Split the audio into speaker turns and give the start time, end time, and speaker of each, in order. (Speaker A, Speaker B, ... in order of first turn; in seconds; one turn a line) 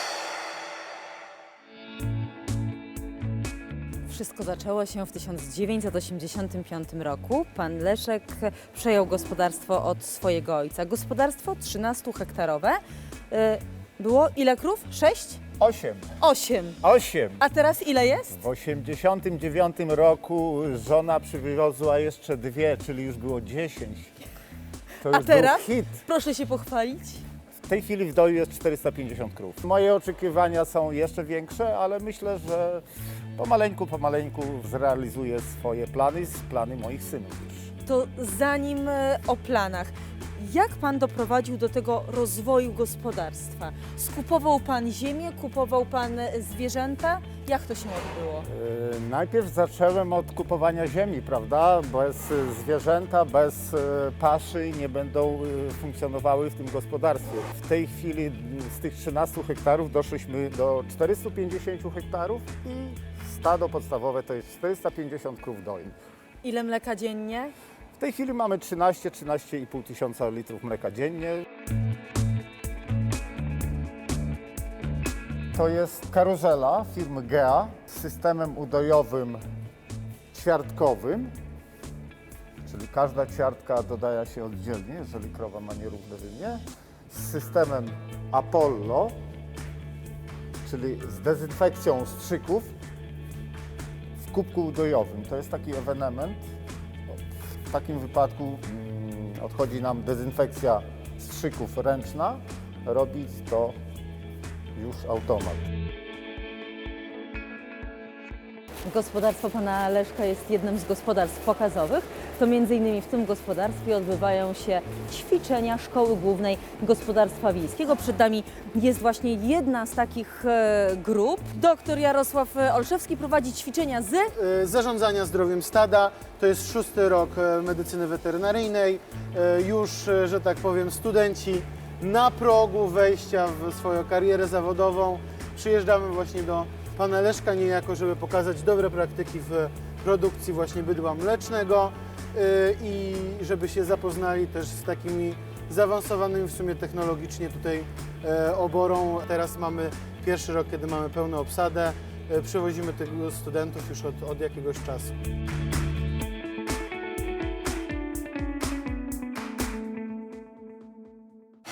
Speaker A: 4.1-15.4
Speaker B: 15.6-16.1
Speaker A: 16.2-16.8
Speaker B: 16.8-17.4
Speaker A: 17.4-18.3
Speaker B: 18.3-24.1
Speaker B: 25.0-26.0
Speaker A: 25.1-27.2
Speaker B: 27.6-32.8
Speaker B: 33.4-37.7
Speaker A: 37.9-48.5
Speaker B: 48.5-66.0
Speaker A: 66.4-67.5
Speaker B: 68.0-71.5
Speaker B: 75.5-79.4
Speaker B: 80.3-81.3
Speaker B: 82.7-89.2
Speaker B: 90.7-92.7
Speaker B: 94.2-96.5
Speaker B: 97.1-103.8
Speaker B: 104.8-105.6
Speaker A: 108.8-124.3
Speaker C: 124.4-155.2